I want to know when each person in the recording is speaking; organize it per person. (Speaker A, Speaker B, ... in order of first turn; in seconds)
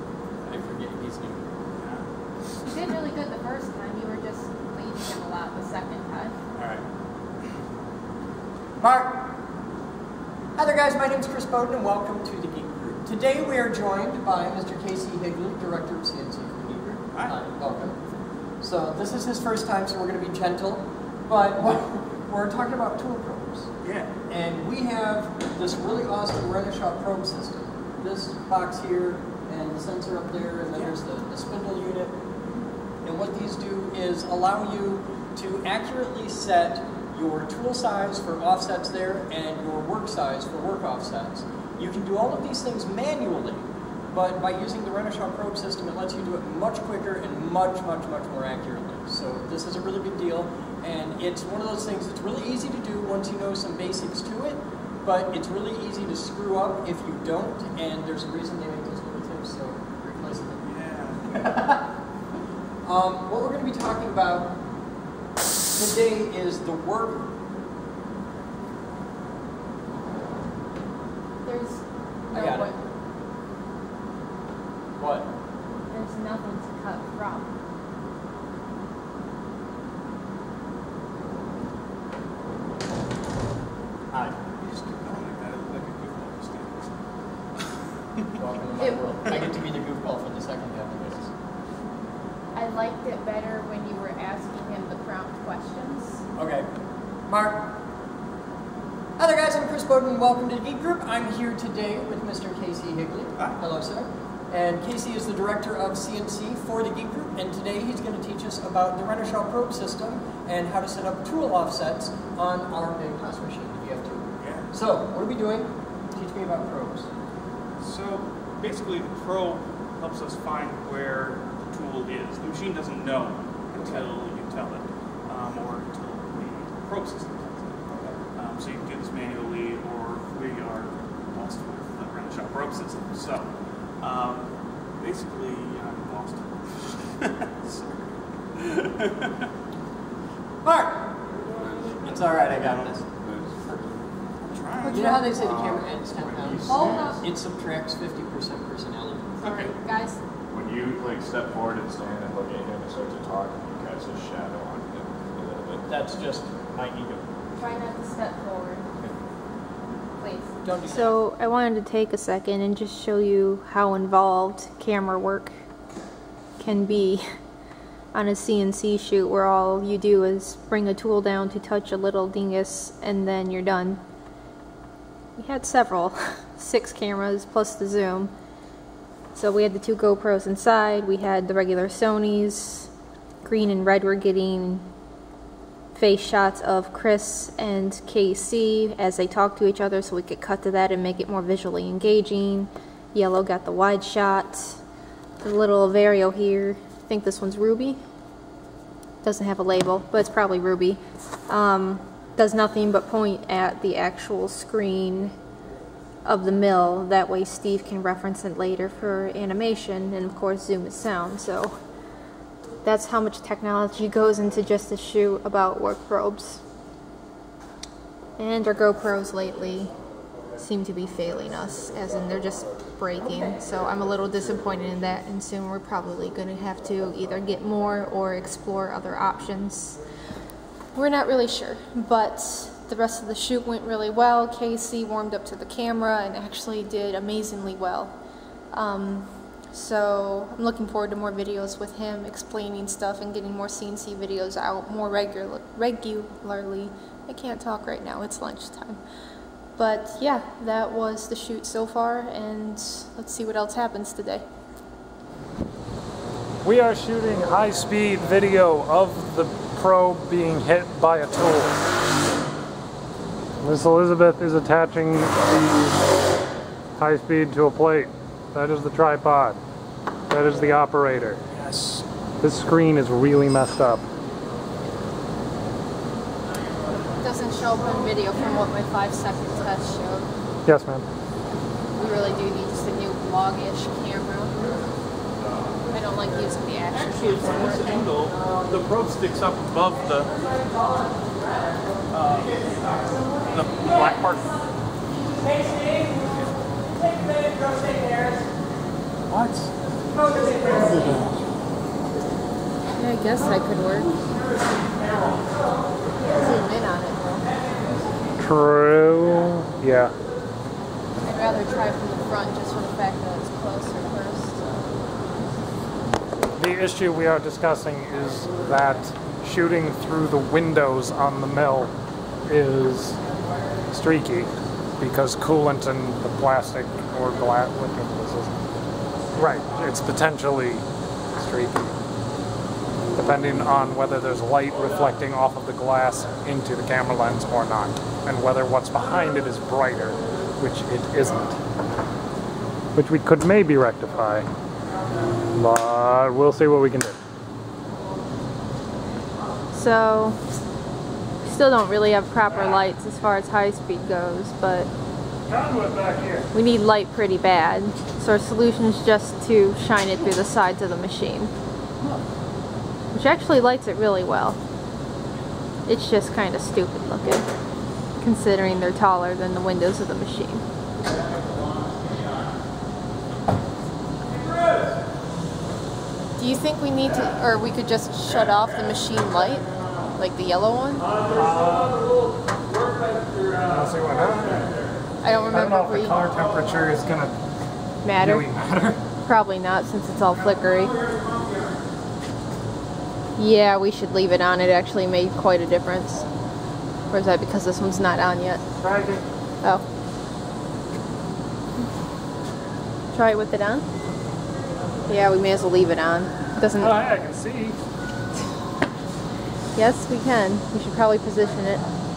Speaker A: 0.4-1.6, 8.8-9.3, 10.6-18.0, 18.6-23.7, 24.3-32.2, 33.0-60.6, 61.3-61.8, 62.8-64.6, 65.7-67.3, 72.3-72.7, 75.0-75.3, 84.1-84.4, 88.3-91.3, 96.4-96.7, 97.3-97.7, 99.2-117.1, 127.9-128.2, 140.6-141.2, 142.0-143.0, 144.9-149.4, 155.9-157.3, 160.6-161.2, 223.2-223.6
Speaker B: 1.8-2.0, 6.5-6.8, 23.8-24.1, 60.6-61.5, 84.6-86.8, 114.4-114.7, 117.8-127.8, 128.3-139.4, 144.4-145.9, 149.4-149.7, 271.6-272.1, 286.9-290.6, 292.1-294.6, 296.2-296.4, 299.3-299.8, 371.1-372.4, 374.3-375.0, 382.9-383.7, 391.1-391.4
Speaker C: 2.6-6.3, 71.5-72.8, 75.9-77.5, 88.8-89.0, 92.5-96.2, 144.8-145.3, 146.7-147.2, 149.4-150.2, 157.6-158.8, 160.2-165.6, 166.6-167.3, 168.1-174.0, 175.4-178.3, 179.3-182.9, 183.4-184.9, 185.9-194.8, 195.4-198.0, 199.2-205.4, 206.2-211.8, 212.8-216.6, 218.4-219.9, 220.6-230.0, 230.9-238.2, 238.7-249.0, 249.8-254.4, 277.2-280.3, 282.0-284.7, 285.9-288.0, 302.9-304.1, 306.2-307.5, 311.2-314.6, 349.7-350.4, 351.4-354.9, 356.5-361.5, 363.1-364.6, 365.9-367.5, 368.2-370.6, 376.4-381.1, 385.2-386.4, 388.0-388.5, 389.2-391.0, 393.4-396.3, 397.1-398.6, 403.1-403.9, 405.1-407.0, 409.8-411.8
Speaker D: 141.6-142.0, 143.0-144.1, 145.4-147.2, 150.5-155.9
Speaker E: 256.6-261.9, 263.6-266.1, 267.0-269.6, 270.3-271.4, 272.4-274.1, 280.6-281.1, 300.7-301.4, 308.4-310.1, 316.6-321.9, 322.5-323.2, 323.9-328.6, 329.3-332.0, 333.1-341.6, 342.9-344.5, 345.5-347.2, 355.5-356.5, 381.3-382.1, 383.7-384.7, 385.5-387.4, 388.1-389.0, 398.8-399.3, 406.8-407.8